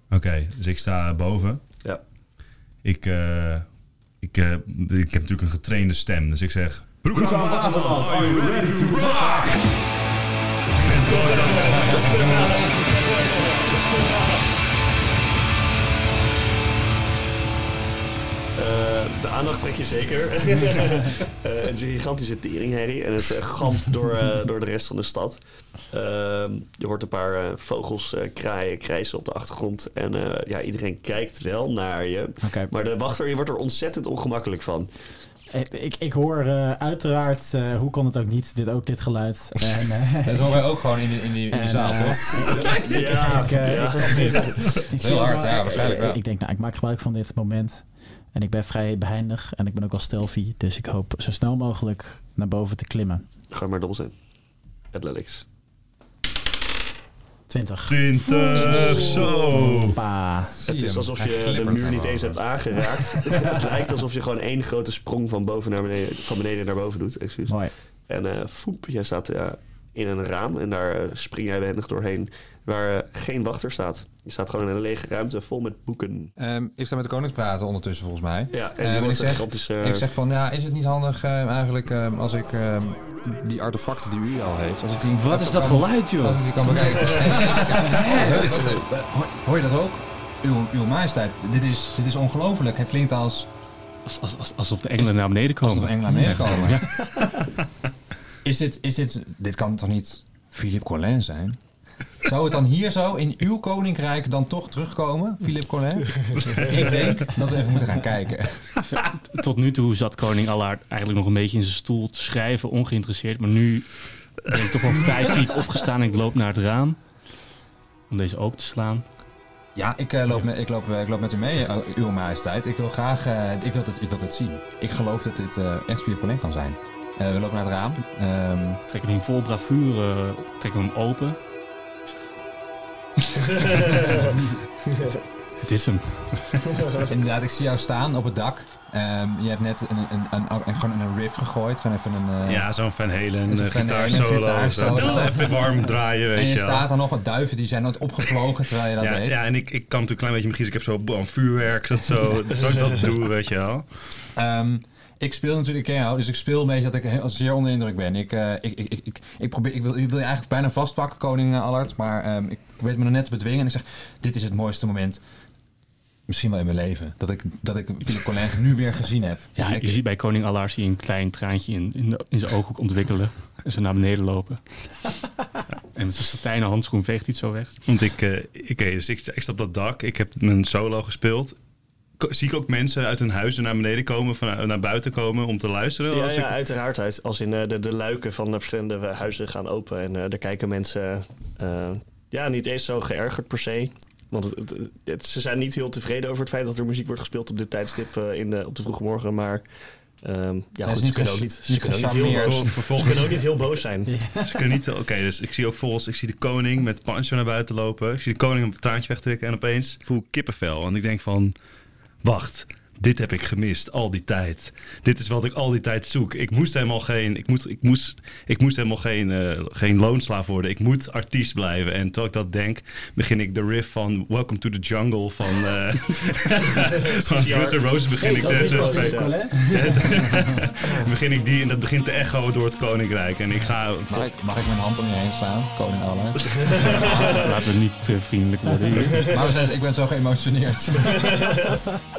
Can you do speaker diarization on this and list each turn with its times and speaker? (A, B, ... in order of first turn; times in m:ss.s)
0:00.1-0:01.6 A
0:02.8-0:03.7 A
0:04.2-0:09.7 A
0:07.2-0:09.4 B
0:07.2-0:09.0 C
0:10.8-0:12.6 A
0:11.0-0:14.2 C
0:18.6-0:34.9 C
0:32.4-0:32.7 D
0:35.5-0:40.7 D
0:40.2-0:42.7 E
0:41.5-0:53.2 D
0:42.5-0:44.8 C
0:44.7-0:46.2 E
0:53.5-0:54.1 C
0:54.9-0:55.4 C
0:57.5-1:00.6 D
0:57.8-1:00.0 A
0:58.8-0:59.3 C
1:00.5-1:02.4 E
1:00.6-1:16.3 C
1:07.5-1:07.7 D
1:16.4-1:33.5 E
1:18.5-1:20.0 C
1:25.0-1:28.7 B
1:34.0-1:37.4 B
1:35.0-1:36.9 E
1:38.4-1:41.6 E
1:42.2-1:48.7 E
1:48.8-1:57.0 B
1:58.1-1:59.0 B
1:59.7-2:08.8 E
2:08.9-2:11.4 B
2:13.3-2:14.1 B
2:13.6-2:14.2 C
2:15.6-2:16.6 B
2:17.0-2:22.7 E
2:22.4-2:26.8 A
2:23.5-2:25.7 E
2:26.3-2:29.4 E
2:29.0-2:33.8 A
2:34.4-2:45.2 E
2:46.3-2:50.0 E
2:49.6-2:55.2 B
2:55.9-2:57.8 B
2:57.9-3:01.6 A
3:02.2-3:06.6 A
3:06.1-3:19.6 C
3:20.2-3:24.1 C
3:20.8-3:22.7 E
3:22.3-3:23.4 A
3:24.1-3:24.6 D
3:24.4-3:31.5 A
3:32.2-3:54.3 A
3:46.8-3:49.4 C
3:48.2-3:50.5 D
3:54.1-3:57.5 E
3:56.6-3:57.5 C
3:57.3-3:59.3 B
3:59.2-3:59.4 C
3:59.2-4:01.6 E
4:01.1-4:01.8 C